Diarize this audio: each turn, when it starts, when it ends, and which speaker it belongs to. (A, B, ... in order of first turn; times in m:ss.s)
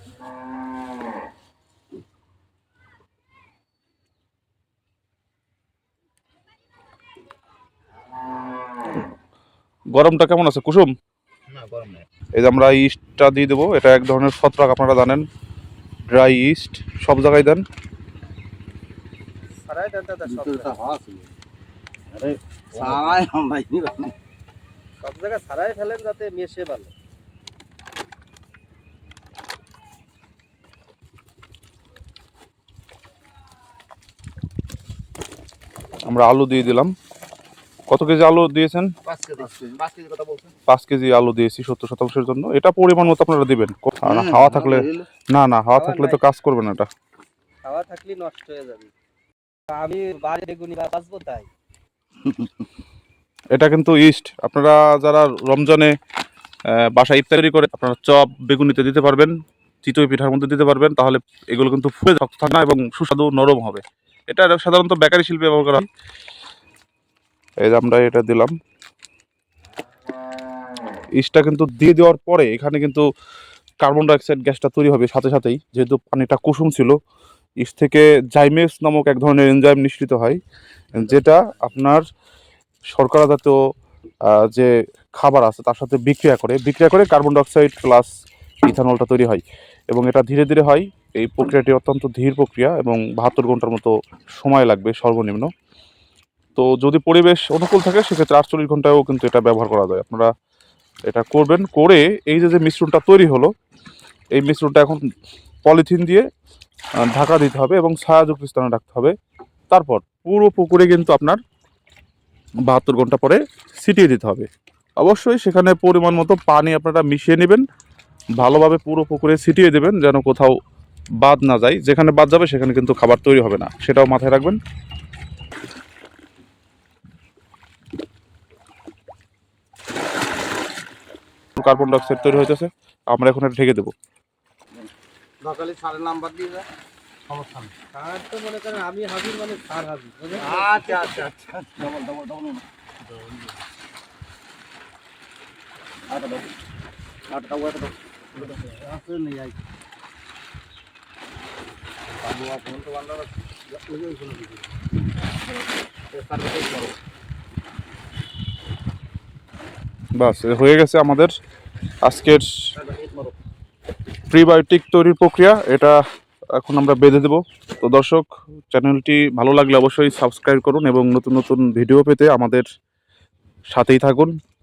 0:10.0-0:10.9 A
0:11.5-0:12.1 B
0:12.4-0:15.2 A
0:16.1-0:17.6 A
0:19.7-0:20.8 C
0:20.3-0:21.3 B
0:22.1-0:24.1 B
0:25.0-0:26.9 C
0:36.1-0:36.9 A
0:37.9-0:38.9 A
0:39.0-0:40.5 B
0:40.7-0:46.9 A
0:44.0-0:45.1 B
0:45.8-0:46.2 C
0:47.6-0:48.9 C
0:49.7-0:51.5 C
0:52.2-0:52.5 B
0:53.5-0:55.9 A
0:56.7-0:59.3 A
0:59.8-1:05.9 A
1:07.6-1:08.5 A
1:11.2-1:13.0 A
1:13.8-1:17.0 A
1:17.6-1:20.4 A
1:20.9-1:22.0 A
1:23.0-1:23.6 A
1:24.2-1:28.1 A
1:28.6-1:35.5 A
1:36.6-1:40.3 A
1:41.1-1:43.5 A
1:44.3-1:45.0 A
1:45.6-1:46.2 A
1:47.1-1:49.1 A
1:49.7-1:51.4 A
1:52.7-1:57.6 A
1:58.4-2:00.6 A
2:01.2-2:04.6 A
2:11.6-2:13.9 A
2:15.4-2:16.7 B
2:17.3-2:17.7 B
2:17.9-2:21.1 C
2:20.4-2:22.6 B
2:26.1-2:26.5 B
2:27.3-2:29.5 B
2:32.2-2:34.6 B
2:36.1-2:37.0 B
2:40.2-2:41.3 A
2:42.0-2:42.5 A
2:42.8-2:43.3 B
2:44.3-2:46.0 A
2:46.6-2:52.6 A
2:53.7-2:54.3 A